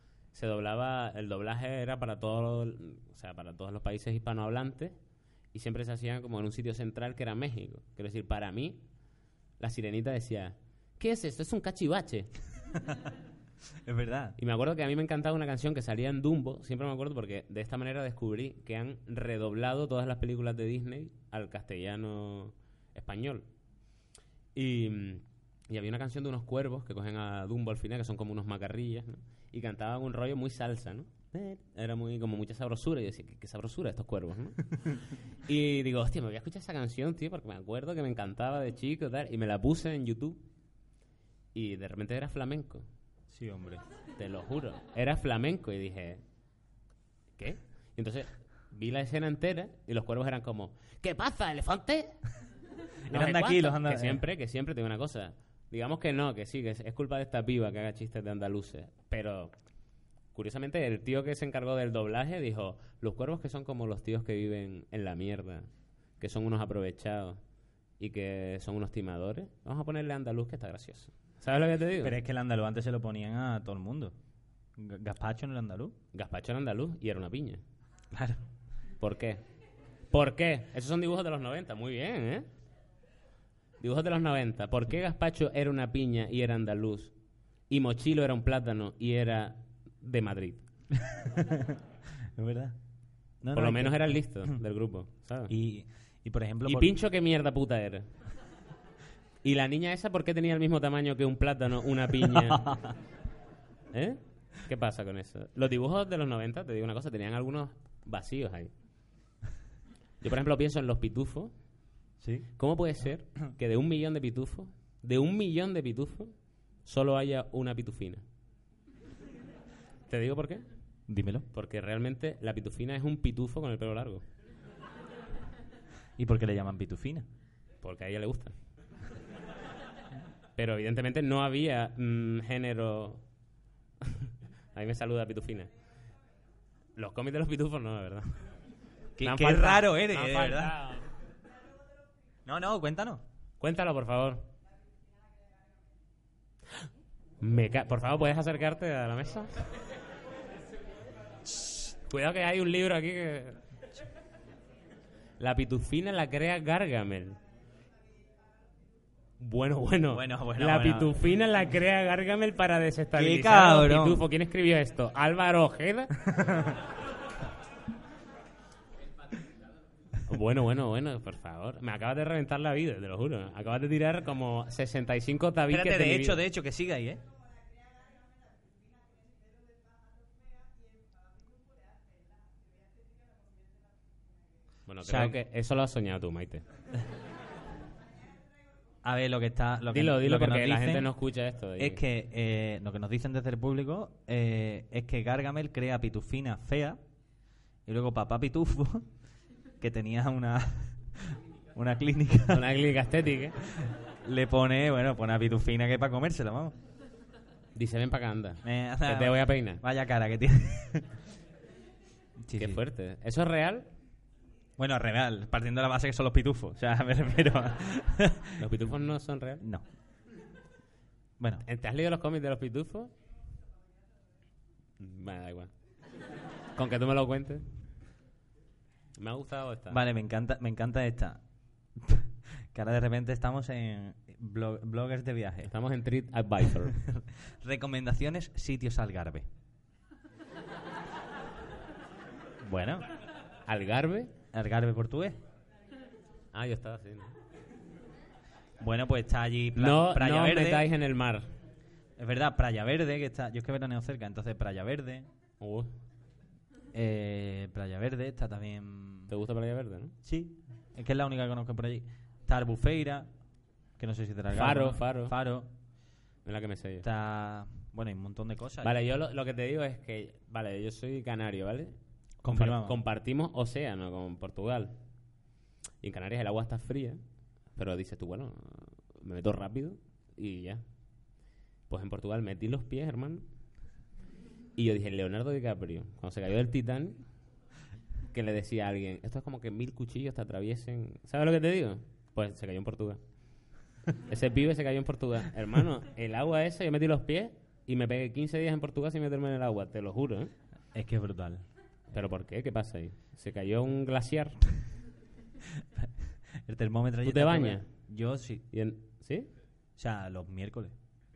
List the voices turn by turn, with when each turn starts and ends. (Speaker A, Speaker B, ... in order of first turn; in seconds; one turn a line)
Speaker A: 0.3-5.0
Speaker A: 5.5-8.8
Speaker A: 9.6-12.3
Speaker B: 13.8-14.3
Speaker A: 14.4-23.4
Speaker A: 24.5-34.7
Speaker A: 35.4-40.4
Speaker A: 41.5-42.9
Speaker B: 43.3-43.8
Speaker A: 44.2-46.2
Speaker A: 47.4-52.1
Speaker A: 53.1-59.5
Speaker B: 53.1-54.2
Speaker A: 60.3-67.4
Speaker A: 68.0-72.2
Speaker B: 72.0-74.1
Speaker B: 74.8-76.0
Speaker A: 76.1-77.6
Speaker B: 78.1-78.4
Speaker A: 79.0-79.4
Speaker A: 80.1-82.5
Speaker A: 83.8-87.1
Speaker A: 87.7-90.6
Speaker B: 90.9-91.8
Speaker B: 92.3-92.8
Speaker B: 93.4-94.5
Speaker A: 93.5-95.5
Speaker B: 95.5-96.9
Speaker A: 96.7-98.1
Speaker A: 99.4-102.7
Speaker B: 102.3-102.9
Speaker A: 103.9-108.7
Speaker A: 110.2-111.5
Speaker B: 112.2-112.5
Speaker A: 112.6-116.3
Speaker A: 116.8-118.2
Speaker A: 120.1-120.6
Speaker B: 121.1-121.4
Speaker A: 121.5-124.2
Speaker B: 126.2-127.2
Speaker A: 127.8-128.5
Speaker A: 130.6-133.2
Speaker A: 134.0-135.7
Speaker A: 136.9-138.3
Speaker B: 139.2-140.8
Speaker A: 139.2-141.1
Speaker B: 142.4-143.2
Speaker A: 143.6-144.5
Speaker A: 147.4-149.5
Speaker A: 152.0-153.6
Speaker A: 155.4-157.4
Speaker A: 159.4-166.1
Speaker B: 160.1-161.1
Speaker B: 163.2-164.3
Speaker B: 166.3-166.7
Speaker A: 170.3-176.4
Speaker B: 175.7-177.2
Speaker A: 184.9-186.6
Speaker B: 185.0-185.4
Speaker B: 189.0-191.1
Speaker A: 189.9-192.0
Speaker B: 191.8-197.0
Speaker B: 197.8-199.1
Speaker B: 199.8-202.7
Speaker A: 202.5-203.6
Speaker B: 203.7-206.8
Speaker A: 207.7-209.8
Speaker B: 208.6-211.2
Speaker B: 212.4-212.8
Speaker A: 212.6-213.9
Speaker B: 214.8-218.7
Speaker A: 218.6-219.6
Speaker B: 221.4-221.6
Speaker A: 221.6-223.1
Speaker A: 225.0-225.7
Speaker A: 226.8-227.6
Speaker A: 229.2-230.0
Speaker B: 229.9-231.4
Speaker B: 232.0-235.7
Speaker A: 235.6-237.0
Speaker B: 236.8-239.5
Speaker B: 242.6-243.1
Speaker A: 243.7-244.3
Speaker B: 244.5-245.4
Speaker A: 246.5-247.3
Speaker B: 248.8-250.9
Speaker A: 249.8-251.5
Speaker B: 252.2-255.3
Speaker A: 255.6-255.9
Speaker B: 256.9-259.3
Speaker A: 259.3-260.1
Speaker B: 260.2-263.3
Speaker B: 264.0-265.7
Speaker A: 264.5-265.3
Speaker A: 266.4-267.1
Speaker B: 267.0-268.9
Speaker A: 268.8-271.9
Speaker B: 272.4-273.0
Speaker A: 272.5-275.0
Speaker A: 276.0-277.2
Speaker A: 277.8-280.8
Speaker A: 281.9-283.4
Speaker A: 284.8-287.2
Speaker A: 288.3-293.2
Speaker A: 294.3-300.5
Speaker B: 300.9-301.6
Speaker A: 302.1-304.6
Speaker B: 305.8-308.6
Speaker A: 307.2-307.9
Speaker A: 308.7-309.5
Speaker B: 310.0-310.9